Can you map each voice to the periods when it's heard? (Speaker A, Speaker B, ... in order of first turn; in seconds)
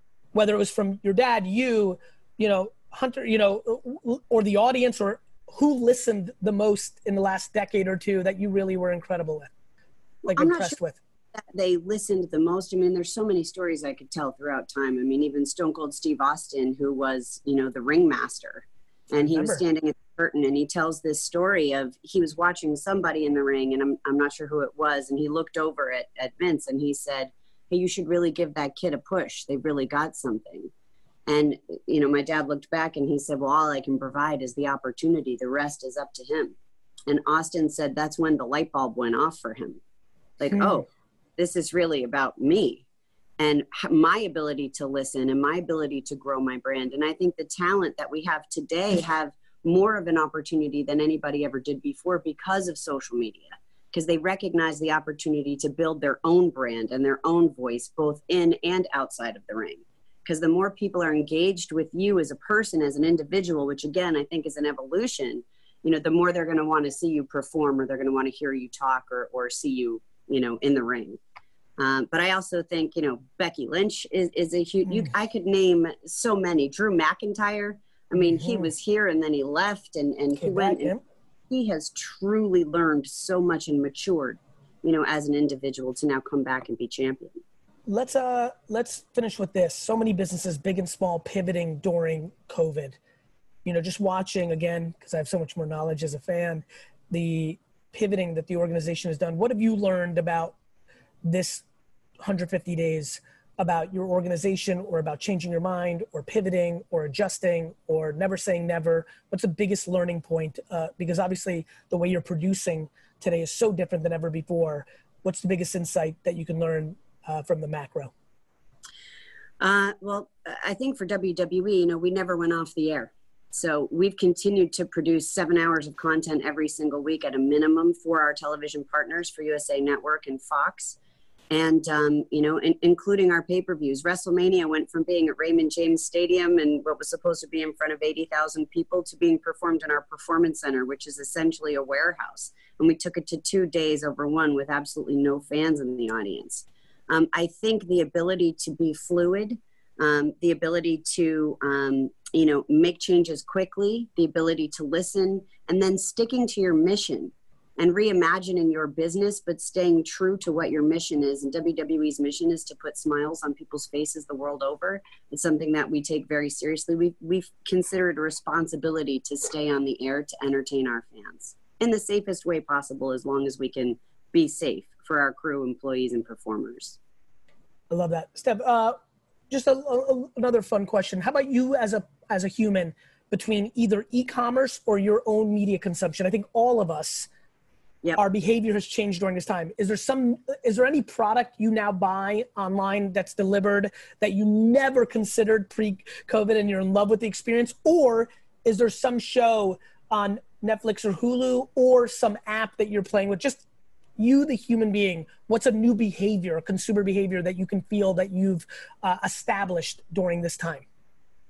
Speaker A: 0.3-9.5, 10.3-11.0, 19.2-19.6, 78.4-78.7, 80.4-81.0, 87.9-93.0, 93.7-100.6, 101.3-101.7, 102.2-118.1, 177.9-179.0, 179.5-187.3, 188.2-203.7, 204.2-210.8
Speaker B: 10.3-10.8, 11.3-30.7, 31.3-36.5, 37.1-39.8, 40.4-40.9, 41.4-42.9, 43.4-71.2, 71.8-80.9, 81.5-87.4, 119.6-131.0, 131.5-177.0